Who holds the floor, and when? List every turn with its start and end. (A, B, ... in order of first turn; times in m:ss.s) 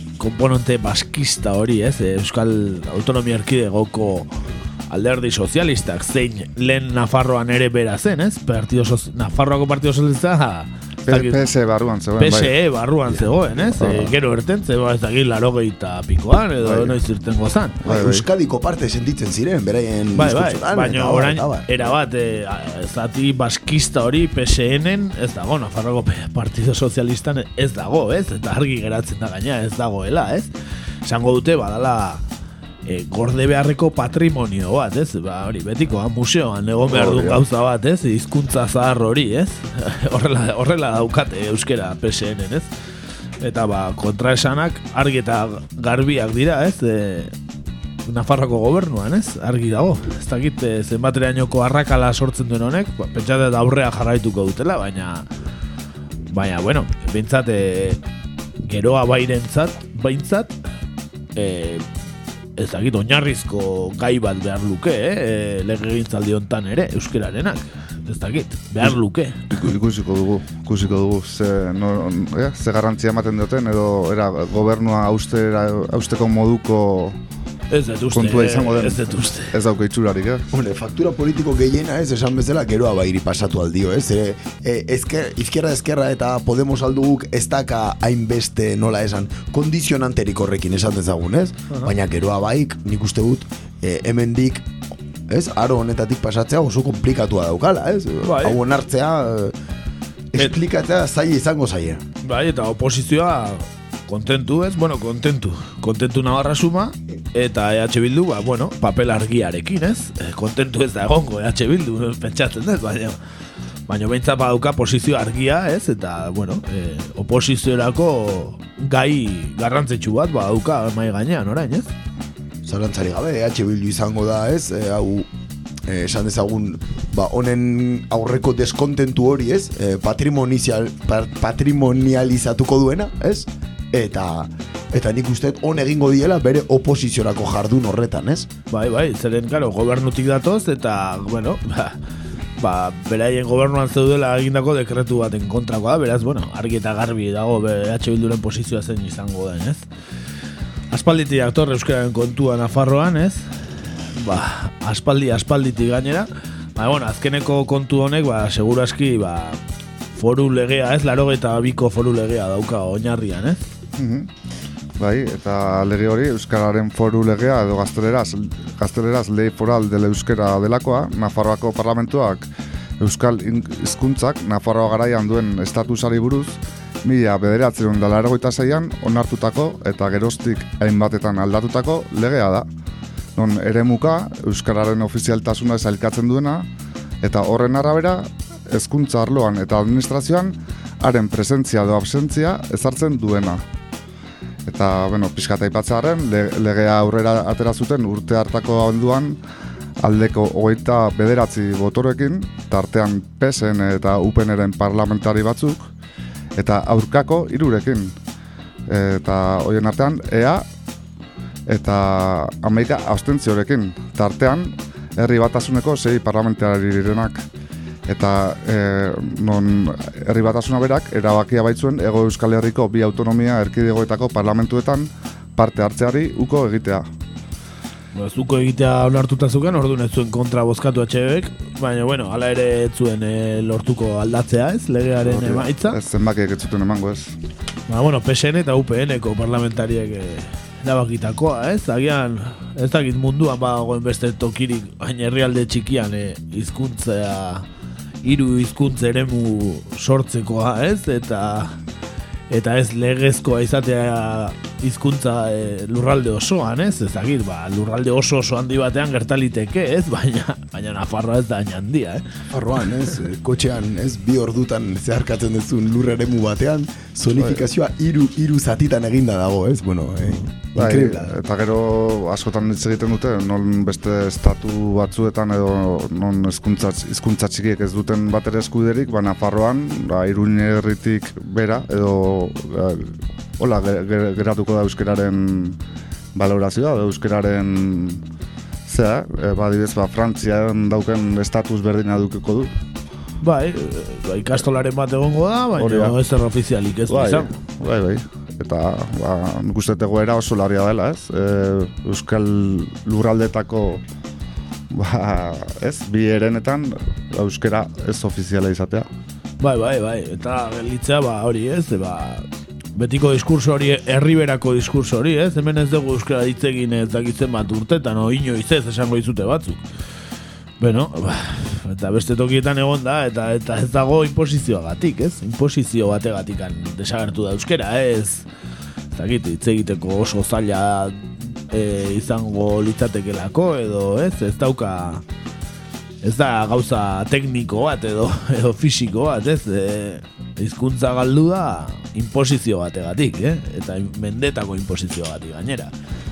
0:00.2-0:04.3 A
0:04.9-0:11.4 A
0:11.0-0:12.5 B
0:12.2-0:17.8 A
0:13.1-0:14.1 B
0:16.6-0:17.0 B
0:17.8-0:18.2 B
0:17.8-0:21.7 C
0:20.1-0:30.5 A
0:31.0-0:32.2 A
0:32.8-0:42.7 A
0:36.9-0:37.4 B
0:43.4-0:47.3 A
0:48.0-0:55.3 A
0:56.3-0:58.0 A
0:58.6-1:00.5 A
1:01.4-1:01.8 A
1:02.6-1:09.6 A
1:09.5-1:17.2 B
1:17.7-1:19.5 A
1:18.1-1:20.4 B
1:20.5-1:34.7 C
1:35.3-1:39.5 C
1:38.2-1:38.6 A
1:40.3-1:42.0 C
1:42.2-1:53.2 A
1:53.9-2:01.9 A
2:02.6-2:05.3 C
2:05.9-2:18.5 C
2:18.7-2:22.0 A
2:22.6-2:29.8 A
2:30.9-2:33.5 A
2:34.2-2:39.6 A
2:40.1-2:43.6 A
2:44.0-2:44.3 B
2:45.0-2:52.5 B
2:53.0-3:02.6 B
3:03.4-3:06.7 B
3:07.2-3:13.6 B
3:14.7-3:19.4 B
3:20.0-3:25.9 B
3:26.6-3:28.1 B
3:28.9-3:30.6 B
3:31.7-3:37.4 B
3:38.1-3:47.0 B
3:48.1-3:56.0 A
3:55.2-3:57.3 B
3:57.9-4:07.6 A
4:08.2-4:11.8 A
4:12.5-4:22.2 A
4:22.5-4:31.3 C
4:27.4-4:27.6 B
4:30.8-4:45.8 B
4:46.3-4:48.2 B
4:48.9-4:52.7 B
4:53.4-4:57.5 A
4:55.8-4:56.1 B
4:57.1-5:04.0 B
5:04.9-5:09.1 B
5:09.6-5:19.8 A
5:20.8-5:28.5 A
5:29.1-5:35.2 A
5:36.2-5:45.9 A